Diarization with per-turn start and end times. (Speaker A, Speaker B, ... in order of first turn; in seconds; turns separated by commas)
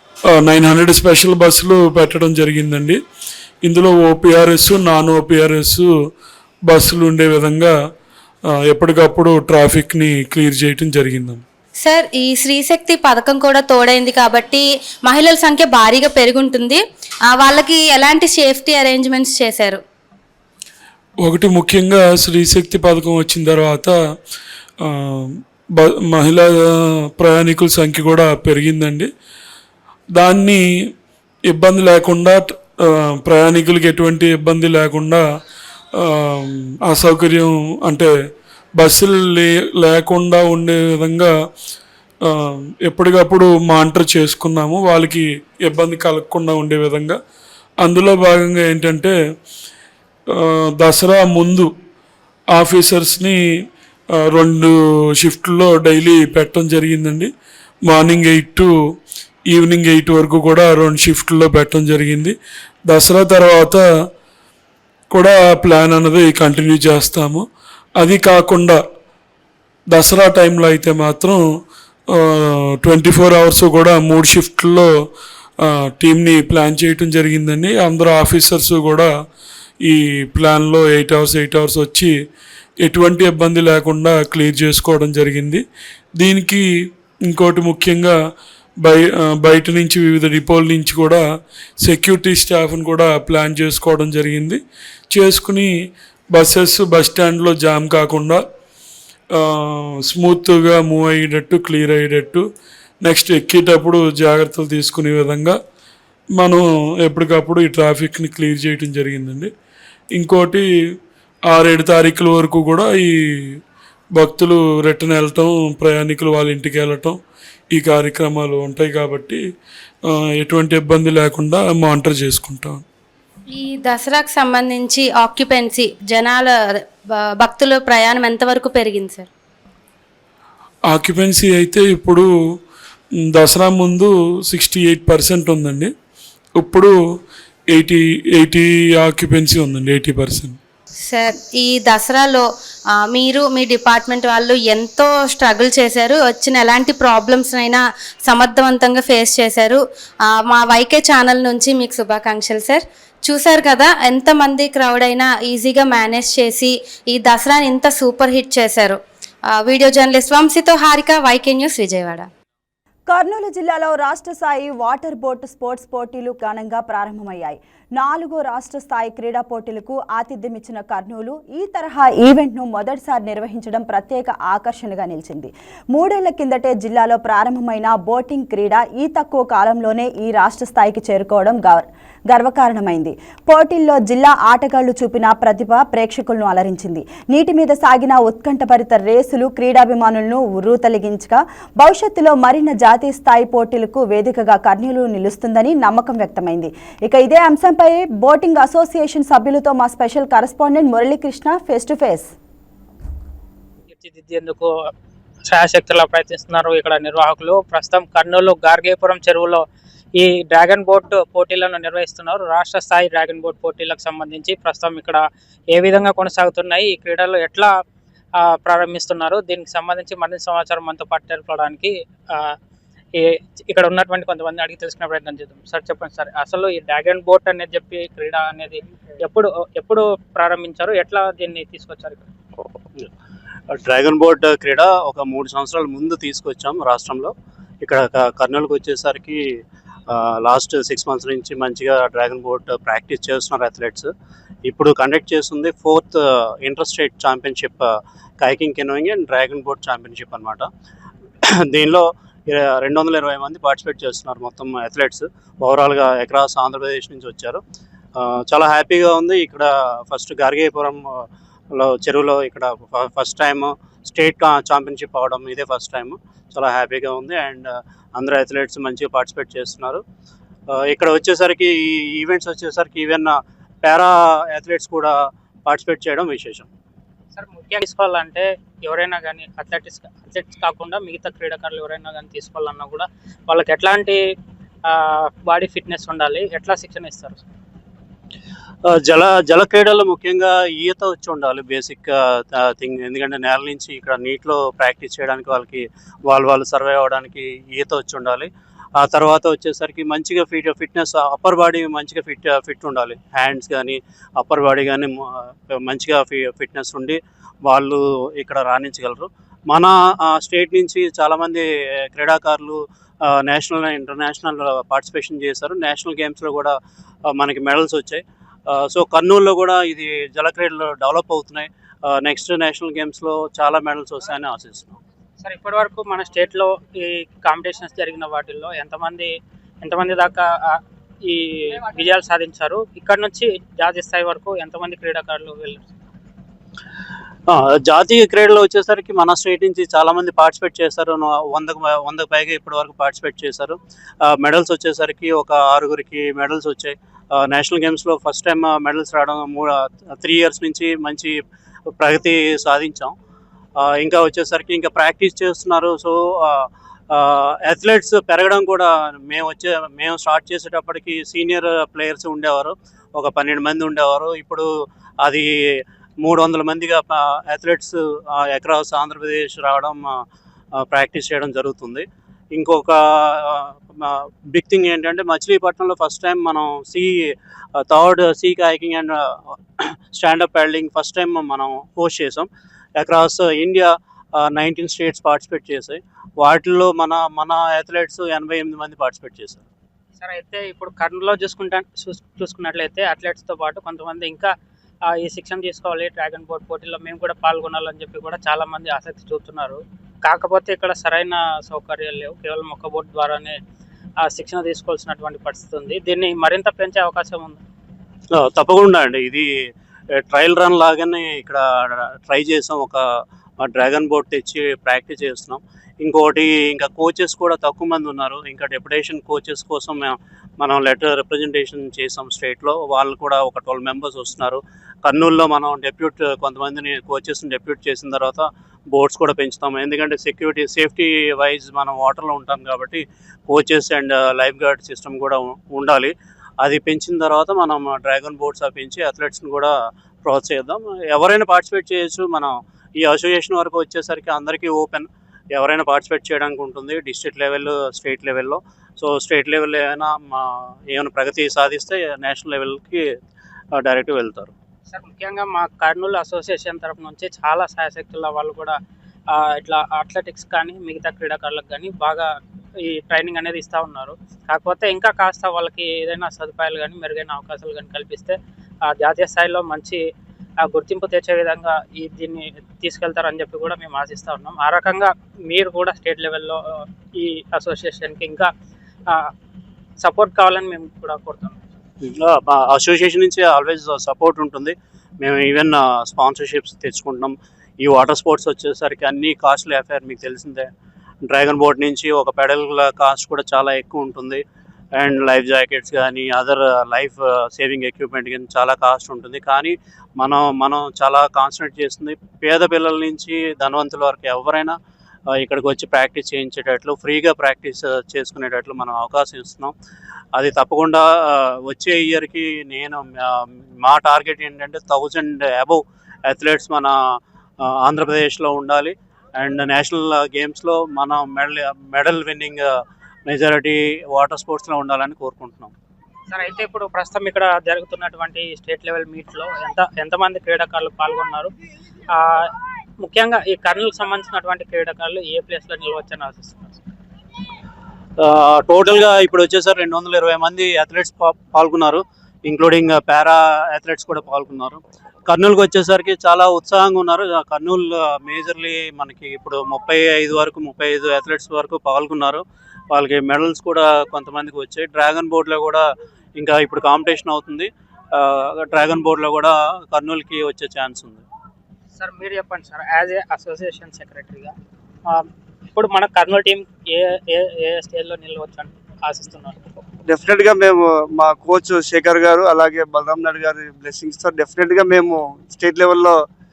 Speaker A: 0.3-3.0, Speaker A: 3.6-5.9, Speaker A: 6.7-7.7, Speaker A: 8.7-11.4, Speaker B: 11.8-16.8, Speaker B: 17.3-19.8, Speaker A: 21.2-23.9, Speaker A: 24.8-29.1, Speaker A: 30.1-30.6, Speaker A: 31.5-35.2, Speaker A: 36.0-38.1, Speaker A: 38.8-41.3, Speaker A: 42.2-47.2, Speaker A: 47.8-49.1, Speaker A: 50.3-51.7, Speaker A: 52.5-53.4, Speaker A: 54.3-57.3, Speaker A: 57.9-58.7, Speaker A: 59.5-62.3, Speaker A: 62.9-63.8, Speaker A: 65.1-67.4, Speaker A: 68.0-68.8, Speaker A: 69.9-71.4, Speaker A: 72.1-74.9, Speaker A: 75.6-79.1, Speaker A: 79.8-82.1, Speaker A: 82.8-85.6, Speaker A: 86.2-86.6, Speaker A: 87.3-88.2, Speaker A: 88.8-91.2, Speaker A: 91.8-94.6, Speaker A: 95.1-95.7, Speaker A: 96.3-98.4, Speaker A: 99.3-102.5, Speaker A: 103.0-105.6, Speaker A: 106.4-109.5, Speaker A: 110.1-110.7, Speaker A: 111.5-113.6, Speaker A: 114.2-117.2, Speaker A: 117.7-119.4, Speaker A: 120.1-122.8, Speaker B: 123.5-126.8, Speaker B: 127.4-129.3, Speaker A: 130.9-132.3, Speaker A: 133.3-135.9, Speaker A: 136.6-136.9, Speaker A: 137.7-140.6, Speaker B: 141.1-142.4, Speaker B: 143.0-159.0, Speaker B: 159.5-162.3, Speaker C: 163.1-202.3, Speaker D: 203.9-204.9, Speaker D: 205.4-209.6, Speaker D: 210.2-217.7, Speaker D: 218.4-222.6, Speaker D: 223.1-232.3, Speaker E: 233.7-239.4, Speaker E: 240.1-244.1, Speaker E: 244.7-250.7, Speaker E: 251.6-257.6, Speaker E: 258.2-270.0, Speaker E: 270.7-276.7, Speaker D: 277.3-284.2, Speaker D: 284.9-287.4, Speaker E: 288.9-316.8, Speaker E: 317.3-325.0, Speaker D: 325.4-335.9, Speaker E: 337.5-351.4, Speaker E: 352.0-353.1, Speaker E: 353.8-364.7, Speaker E: 365.2-370.2, Speaker E: 370.8-389.6, Speaker D: 390.2-394.5, Speaker D: 395.1-403.6, Speaker D: 404.2-407.6, Speaker E: 408.4-409.5, Speaker E: 410.2-413.0, Speaker E: 413.6-439.7, Speaker E: 440.2-453.1, Speaker E: 453.8-454.5, Speaker D: 454.9-458.8, Speaker D: 459.3-470.0, Speaker D: 470.6-478.5, Speaker D: 479.1-479.3, Speaker D: 480.0-481.6, Speaker E: 482.0-490.7, Speaker E: 491.3-494.4, Speaker E: 495.0-504.8, Speaker E: 505.4-509.7, Speaker E: 510.4-517.0, Speaker E: 517.6-522.7, Speaker E: 523.3-525.7, Speaker D: 526.3-531.5, Speaker D: 532.1-536.8, Speaker E: 538.2-555.8, Speaker E: 556.4-561.2, Speaker D: 562.0-564.5, Speaker D: 565.1-569.6, Speaker F: 570.1-576.1